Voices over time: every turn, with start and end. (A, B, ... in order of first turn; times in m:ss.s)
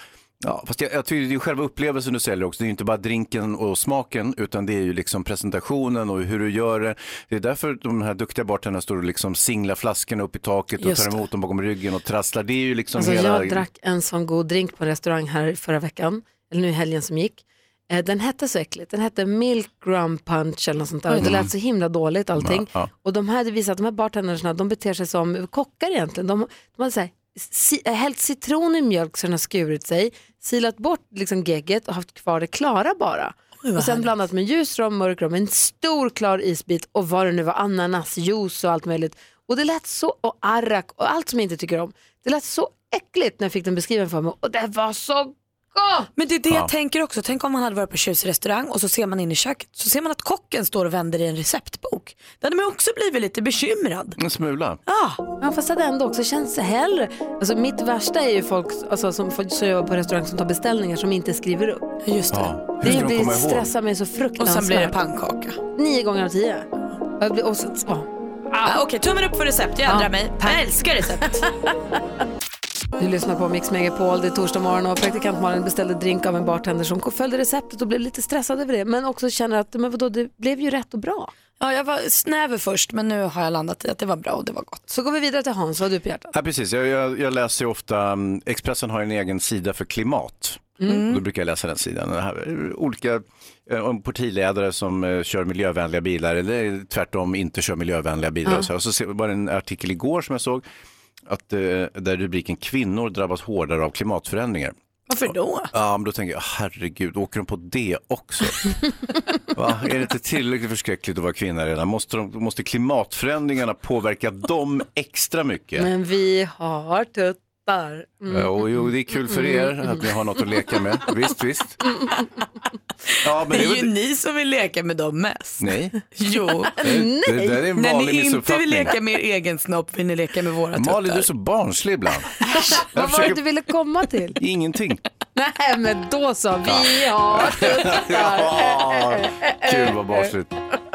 0:00.4-0:13.6 A
0:10.8-0:11.2 B
0:13.0-0:46.1 C
0:21.1-0:21.4 B
0:21.2-0:21.5 A
0:22.4-0:22.9 A
0:33.6-0:34.1 B
0:46.2-0:54.2 B
0:54.2-0:54.8 A
0:54.9-0:55.2 B
0:55.4-1:01.8 C
1:02.0-1:03.1 B
1:02.3-1:03.7 A
1:02.8-1:05.0 C
1:04.4-1:05.6 B
1:05.7-1:06.7 C
1:07.2-1:08.8 C
1:08.6-1:11.5 B
1:09.9-1:10.6 C
1:13.0-1:21.3 C
1:21.6-1:24.8 B
1:24.9-1:26.3 C
1:26.3-1:40.6 A
1:30.8-1:31.2 B
1:41.3-1:44.8 A
1:45.1-1:45.7 B
1:45.7-1:48.8 A
1:49.5-1:55.9 A
1:55.8-1:58.6 C
1:58.3-2:01.8 A
1:59.2-2:00.1 C
2:03.2-2:03.9 A
2:03.5-2:06.8 B
2:05.6-2:06.0 A
2:06.8-2:07.6 C
2:06.8-2:09.0 A
2:07.8-2:11.3 B
2:10.8-2:13.4 A
2:12.6-2:14.4 C
2:14.4-2:15.0 A
2:15.4-2:20.3 C
2:16.7-2:20.5 A